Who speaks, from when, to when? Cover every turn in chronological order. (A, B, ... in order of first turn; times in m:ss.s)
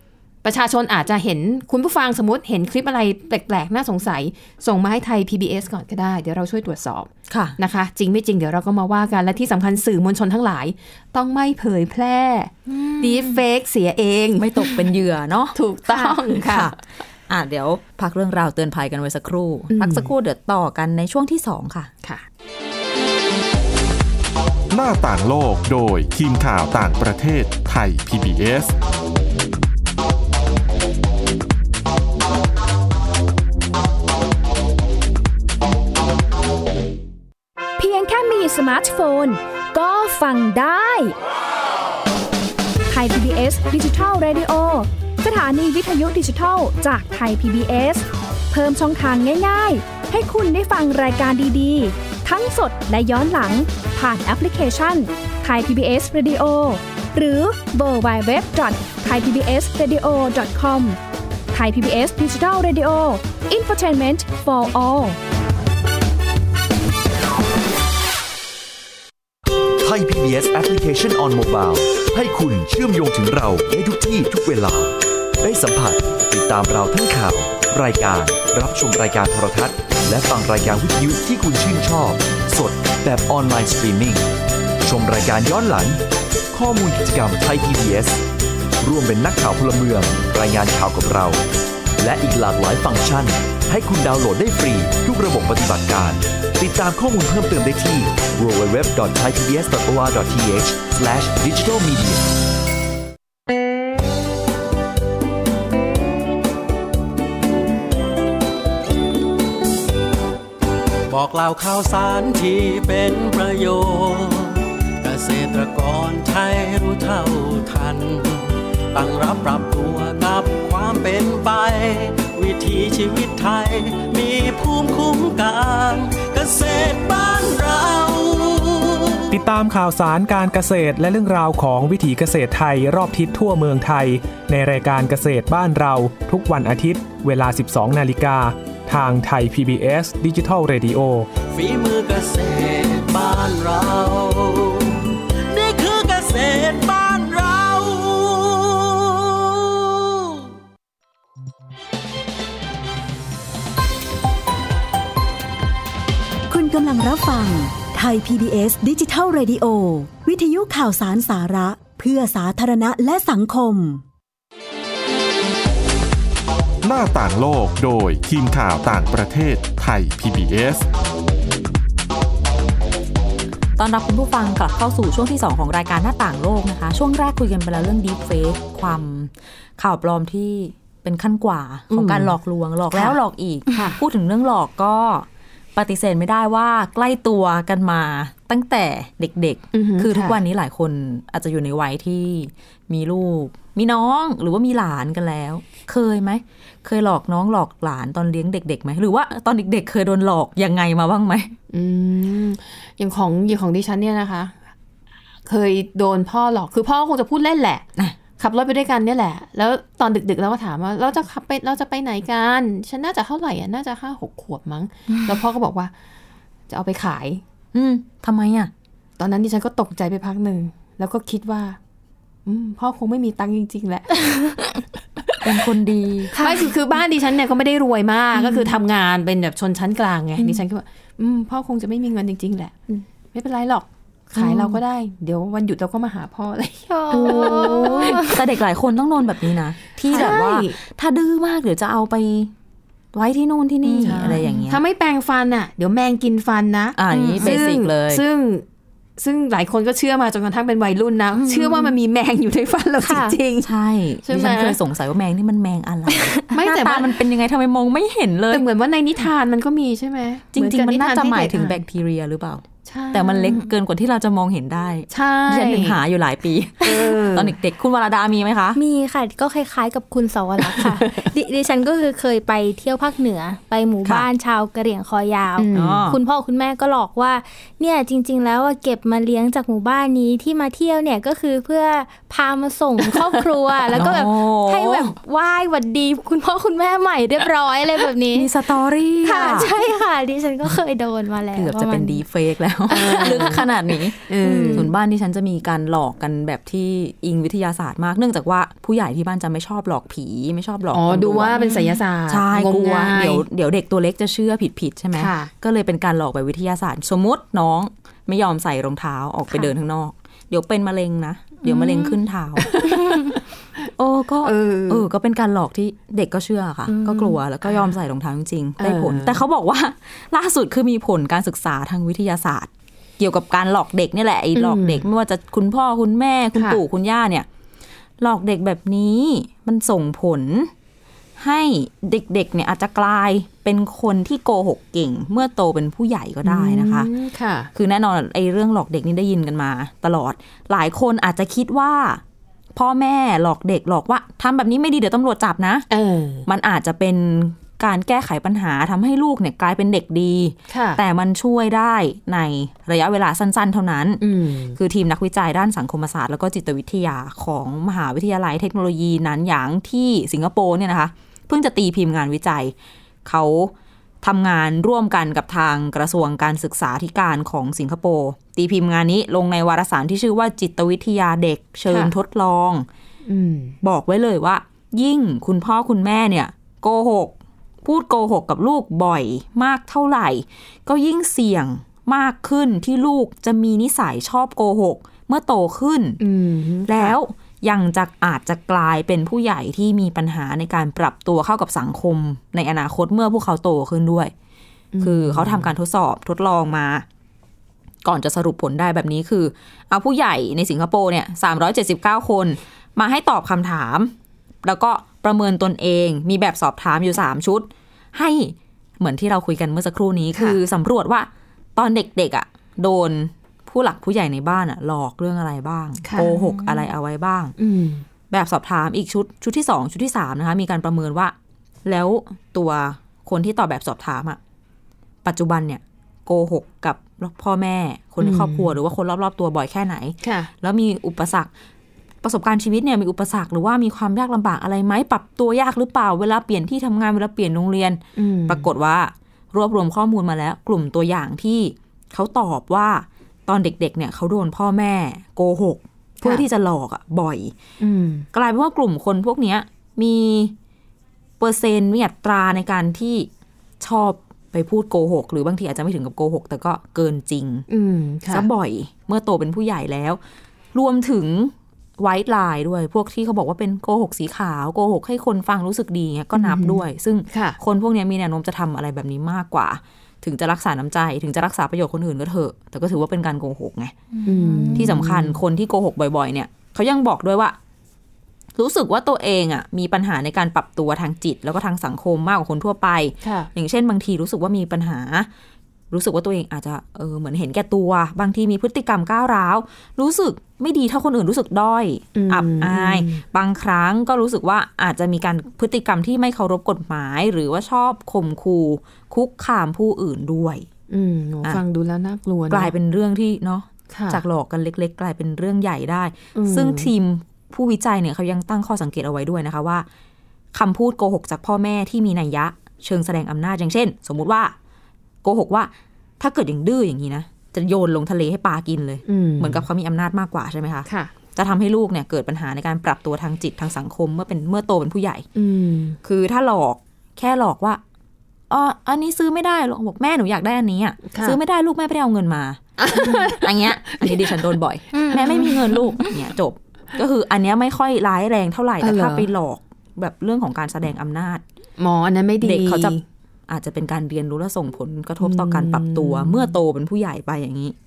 0:00.4-0:14.5 A
0:07.3-0:07.6 B
0:12.7-0:13.4 C
0:14.4-0:15.6 B
0:15.5-0:16.7 A
0:15.9-0:16.1 C
0:16.3-0:16.8 B
0:17.3-0:21.9 B
0:19.7-0:20.1 A
0:24.7-0:28.7 D
0:37.8-0:41.1 E
0:42.9-1:01.0 E
1:01.5-1:05.2 E
1:09.8-1:24.3 F
1:24.8-1:28.2 F
1:28.8-1:31.4 F
1:32.0-1:42.3 F
1:51.1-2:09.2 G
2:09.3-2:21.3 H
2:21.4-2:30.4 G
2:36.5-2:44.0 I
2:46.8-2:50.8 D
2:53.8-3:21.5 B
3:01.9-3:02.3 A
3:03.7-3:04.0 A
3:09.7-3:10.4 A
3:21.7-3:24.6 A
3:25.4-3:27.8 A
3:28.4-3:35.9 A
3:36.7-3:37.4 A
3:37.7-3:38.7 B
3:39.2-3:41.8 A
3:42.4-3:44.7 A
3:45.4-3:46.4 B
3:46.3-3:52.8 A
3:46.3-3:46.7 C
3:48.4-3:48.7 C
3:53.3-3:58.3 A
3:54.4-3:54.6 B
3:56.9-3:58.4 C
3:57.1-4:02.5 B
4:00.1-4:00.8 A
4:03.1-4:04.8 B
4:04.0-4:08.6 A
4:04.0-4:04.5 C
4:06.9-4:08.2 B
4:07.1-4:07.6 C
4:09.2-4:13.7 A
4:11.4-4:11.9 C
4:13.0-4:13.4 C
4:13.6-4:18.6 B
4:14.2-4:14.8 A
4:16.1-4:16.4 C
4:16.5-4:17.1 A
4:18.5-4:21.8 A
4:20.5-4:28.8 B
4:22.8-4:23.6 A
4:25.1-4:26.0 A
4:26.8-4:27.5 A
4:28.8-4:48.5 C
4:35.6-4:36.0 A
4:35.7-4:36.2 B
4:43.9-4:45.1 B
4:48.3-4:49.7 B
4:49.2-4:52.2 C
4:51.5-5:01.6 B
4:52.9-4:53.7 C
4:52.9-4:53.6 A
4:54.3-4:54.9 A
4:54.4-4:54.9 C
5:00.9-5:03.4 A
5:01.6-5:02.0 C
5:02.3-5:13.2 B
5:05.1-5:05.5 A
5:11.7-5:12.1 A
5:12.6-5:13.4 A
5:13.9-5:27.5 B
5:14.4-5:15.1 A
5:16.9-5:17.9 A
5:18.8-5:19.4 A
5:24.5-5:25.0 A
5:26.5-5:26.8 A
5:28.2-5:30.7 B
5:31.4-5:37.1 B
5:36.4-5:37.7 A
5:37.7-5:42.2 B
5:42.7-5:45.8 B
5:45.9-5:46.5 A
5:46.4-6:02.7 B
5:50.7-5:51.0 A
5:54.2-5:54.8 A
6:03.2-6:12.9 B
6:11.9-6:12.1 A
6:13.2-6:13.8 A
6:13.8-6:26.2 B
6:26.2-6:27.2 A
6:26.8-6:34.3 B
6:34.9-6:35.7 A
6:35.0-6:37.0 B
6:38.0-6:57.5 B
6:56.0-6:56.3 A
6:56.4-6:56.7 C
6:57.6-6:58.0 A
6:58.3-7:04.4 B
7:05.2-7:11.5 B
7:08.2-7:08.7 A
7:10.2-7:10.5 A
7:12.2-7:27.5 B
7:18.2-7:18.7 A
7:27.8-7:28.2 A
7:28.3-7:30.5 B
7:31.4-7:33.3 B
7:33.8-7:37.7 B
7:37.7-7:38.5 A
7:38.3-7:40.2 B
7:40.7-7:53.9 B
7:46.3-7:47.6 A
7:54.1-7:54.9 C
7:54.2-7:55.4 A
7:54.7-7:57.6 B
7:58.6-8:05.3 B
8:03.2-8:03.5 A
8:05.9-8:20.7 B
8:12.1-8:13.2 A
8:20.9-8:22.7 A
8:22.5-8:29.8 B
8:23.9-8:24.2 A
8:26.3-8:26.9 A
8:30.5-8:34.5 B
8:35.2-8:45.2 B
8:39.0-8:39.6 A
8:40.9-8:41.1 A
8:45.3-8:46.0 A
8:46.0-8:47.8 B
8:48.5-9:01.4 B
8:51.1-8:51.4 A
8:52.8-8:53.4 A
8:54.9-8:55.8 C
8:55.1-8:55.4 A
8:58.8-8:59.3 A
9:01.8-9:03.0 A
9:02.4-9:03.0 B
9:03.5-9:07.8 B
9:05.2-9:06.5 A